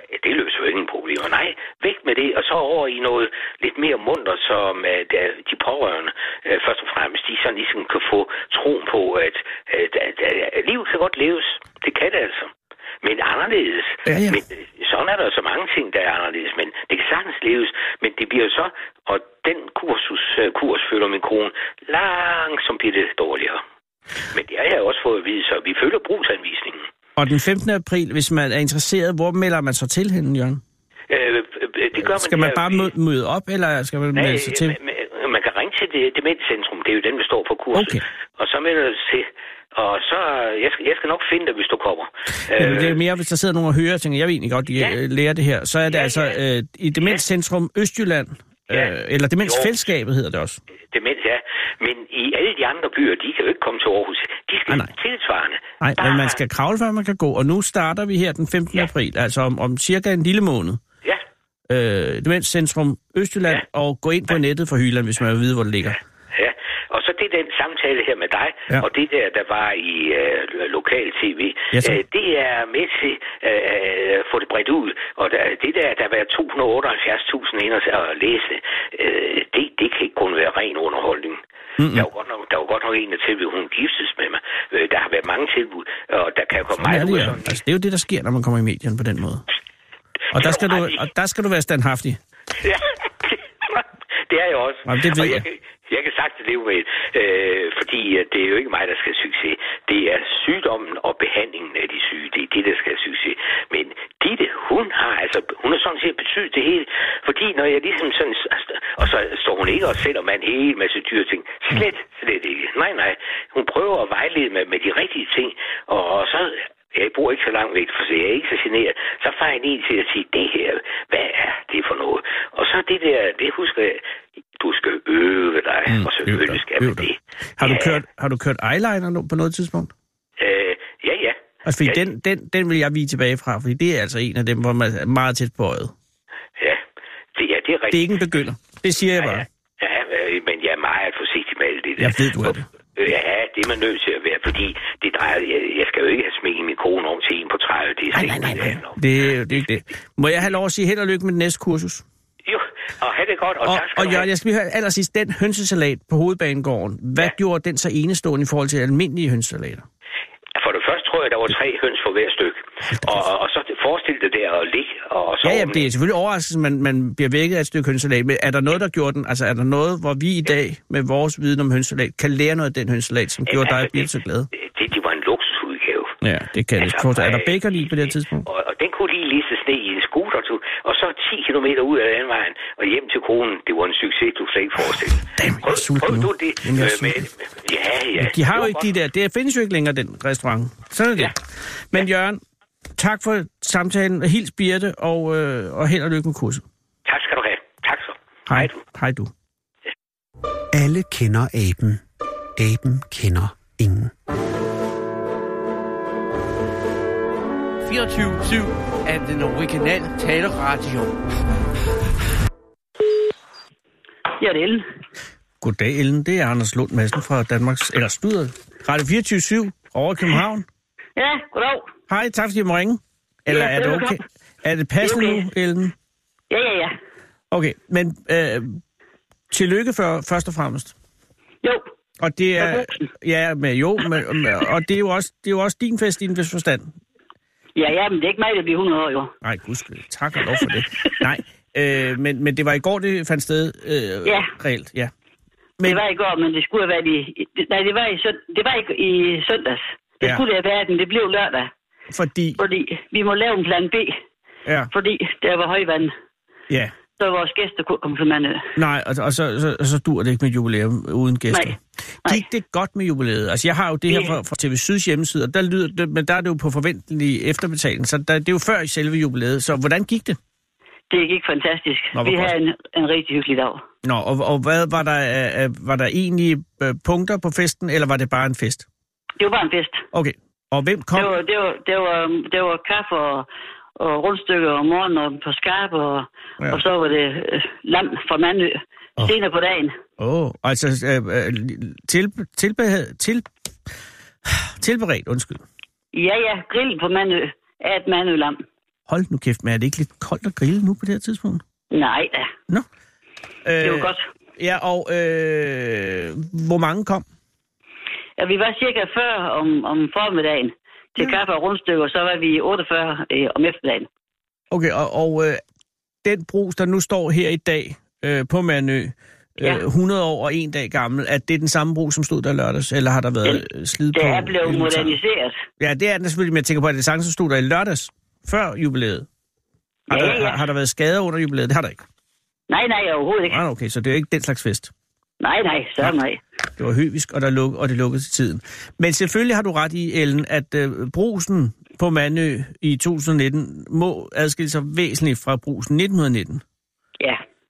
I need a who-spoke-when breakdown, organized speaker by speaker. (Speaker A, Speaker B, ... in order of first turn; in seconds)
Speaker A: 0.1-23.6, 24.3-26.9, 31.1-32.9, 34.1-43.0, 45.9-46.3, 49.4-49.7, 50.9-56.4, 66.3-81.4, 81.9-87.6, 90.3-91.0, 92.6-124.0, 124.6-128.0, 130.4-132.0, 137.3-138.1, 139.2-149.0, 152.4-154.3, 160.6-165.9, 173.5-176.1, 176.8-177.6, 178.4-188.9, 197.0-198.8
Speaker B: 14.1-14.4, 27.1-30.6, 32.0-34.8, 37.7-38.0, 42.5-50.6, 55.8-60.8, 61.7-66.0, 71.7-72.0, 81.8-82.1, 86.7-89.4, 90.3-92.2, 94.8-95.5, 125.9-129.9, 131.7-135.9, 137.9-139.4, 142.0-142.7, 148.1-152.0, 153.6-159.8, 162.9-163.2, 165.4-174.5, 176.2-178.5, 185.2-187.3, 188.2-192.4, 192.9-196.6, 198.5-199.3, 215.6-220.7, 222.1-225.9, 227.5-228.8, 229.5-230.9, 232.2-236.9, 239.4-245.1, 252.1-252.6, 256.7-256.9, 258.8-270.4, 272.1-272.5, 274.0-278.9, 280.1-281.3, 290.2-293.5, 294.4-295.6, 299.1-301.6, 303.6-307.2, 314.7-315.6, 316.2-325.2, 325.8-329.3, 330.1-332.0, 333.5-334.9, 336.7-346.6
Speaker C: 200.7-202.0, 202.6-204.1
Speaker D: 207.8-211.2
Speaker E: 214.4-214.8, 221.2-221.9, 223.5-224.2, 225.0-225.4, 226.5-226.9, 232.6-232.9, 237.8-239.3, 245.8-251.7, 252.6-254.1, 254.9-256.1, 257.2-258.7, 261.5-262.4, 271.1-273.8, 279.4-280.0, 281.1-283.5, 284.0-290.0, 296.1-298.6, 301.9-302.5, 303.8-304.2, 308.4-314.1, 323.4-325.6, 330.1-330.6, 332.7-333.6, 335.4-336.4